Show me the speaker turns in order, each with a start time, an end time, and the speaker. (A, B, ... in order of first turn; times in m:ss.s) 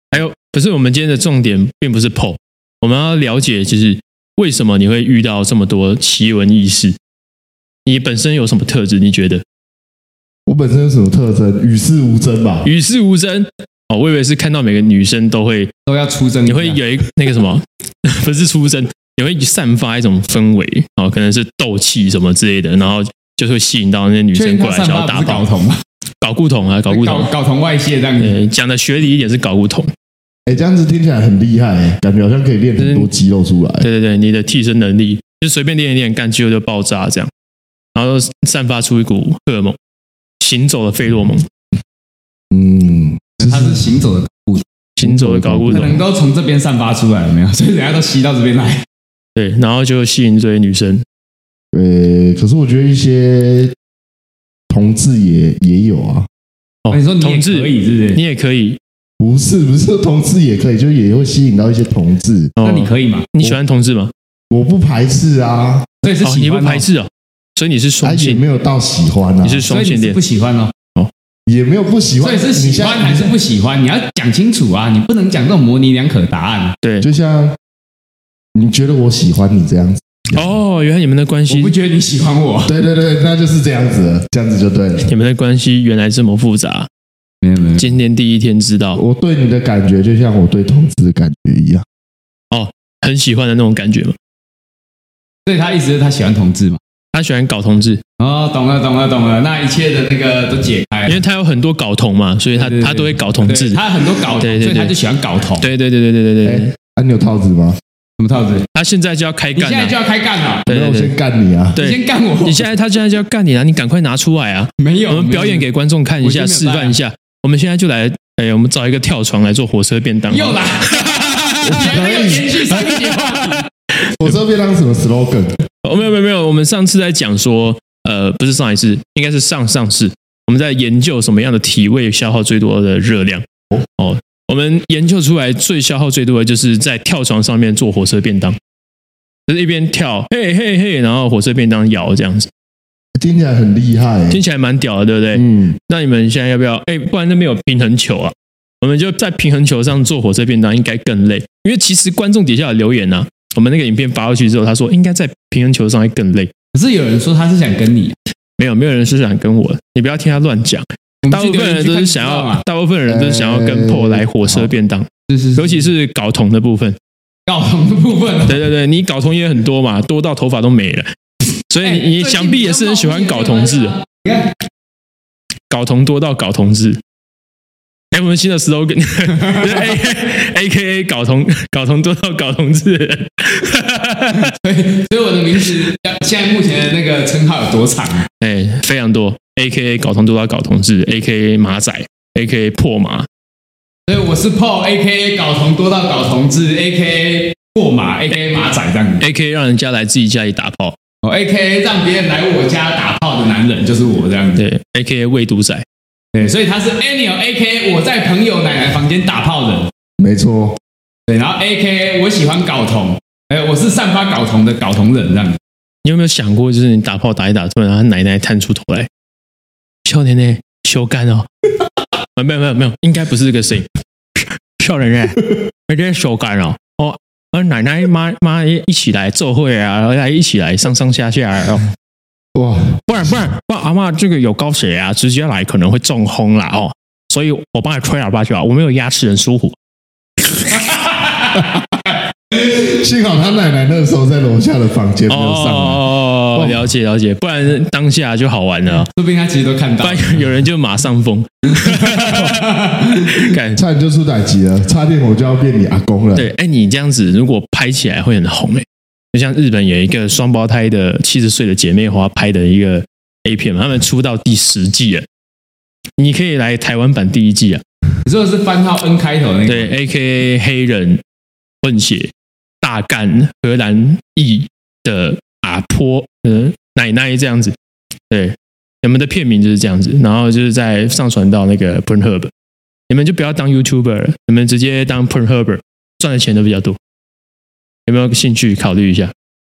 0:00.1-0:07.0 A
0:07.8-0:09.4 A
0:10.5-0:12.7 B
0:12.6-0:15.7 A
0:15.9-0:16.8 C
0:16.5-0:25.4 A
0:24.3-0:25.8 C
0:26.2-0:27.3 A
0:26.9-0:28.4 C
0:28.2-0:29.9 A
0:30.5-0:33.9 B
0:32.8-0:33.1 A
0:33.8-0:37.3 A
0:37.9-0:39.8 A
0:40.4-0:41.5 A
0:42.5-0:43.9 B
0:43.4-0:44.6 C
0:45.0-0:46.0 A
0:45.0-0:46.0 B
0:45.7-0:48.8 C
0:49.4-0:51.0 A
0:51.7-0:53.7 B
0:54.7-0:56.3 B
0:56.8-0:58.8 A
0:56.9-0:58.2 C
0:59.2-1:02.5 B
1:02.6-1:04.1 A
1:02.6-1:03.3 C
1:04.5-1:06.0 B
1:06.0-1:06.9 C
1:06.2-1:08.4 A
1:08.0-1:09.6 B
1:09.4-1:10.2 A
1:09.7-1:10.7 C
1:11.5-1:13.3 B
1:12.2-1:16.8 C
1:16.8-1:17.1 A
1:17.0-1:17.6 B
1:18.5-1:20.0 B
1:20.3-1:21.8 A
1:21.5-1:22.8 C
1:22.7-1:25.1 B
1:25.1-1:26.9 A
1:27.4-1:27.9 C
1:27.8-1:29.0 A
1:29.0-1:31.8 B
1:32.5-1:34.2 A
1:35.5-1:36.8 C
1:37.1-1:38.0 A
1:38.2-1:41.2 C
1:41.1-1:43.8 A
1:42.6-1:45.7 C
1:44.4-1:44.9 A
1:45.6-1:46.7 A
1:46.4-1:47.8 B
1:48.2-1:48.7 C
1:48.7-1:50.0 A
1:49.6-1:50.7 C
1:50.7-1:51.1 A
1:50.7-1:51.8 B
1:51.8-2:01.8 A
1:51.8-1:52.7 C
1:54.8-1:55.7 C
1:56.2-1:57.0 C
2:00.3-2:03.7 C
2:01.6-2:02.6 B
2:02.7-2:04.2 A
2:04.2-2:05.5 B
2:05.8-2:18.6 A
2:19.5-2:22.5 A
2:23.2-2:24.4 B
2:24.3-2:36.5 A
2:25.3-2:25.8 B
2:36.7-2:38.2 C
2:38.6-2:47.0 A
2:41.2-2:42.6 C
2:43.1-2:44.7 B
2:45.3-2:45.8 C
2:47.5-2:48.6 C
2:48.5-2:51.1 A
2:51.7-2:54.0 A
2:51.8-2:54.5 C
2:55.7-2:57.0 A
2:58.1-3:04.5 A
2:59.4-2:59.8 C
3:04.4-3:08.3 C
3:08.4-3:13.3 A
3:14.1-3:19.2 C
3:19.2-3:21.0 A
3:21.2-3:24.6 C
3:24.6-3:25.8 A
3:26.3-3:29.9 C
3:30.2-3:30.8 B
3:31.3-3:35.6 C
3:36.0-3:39.1 A
3:40.0-3:41.5 A
3:42.4-3:51.9 A
3:52.6-3:53.0 B
3:53.0-3:59.8 A
4:00.8-4:01.6 C
4:02.5-4:06.8 B
4:05.3-4:09.1 A
4:09.1-4:10.5 C
4:10.0-4:12.7 A
4:11.8-4:13.4 C
4:13.2-4:13.8 A
4:13.8-4:16.5 B
4:16.4-4:25.3 A
4:26.2-4:27.8 A
4:28.2-4:29.9 C
4:29.7-4:31.2 A
4:31.8-4:37.8 A
4:38.3-4:42.5 A
4:43.1-4:47.0 A
4:48.1-4:49.3 A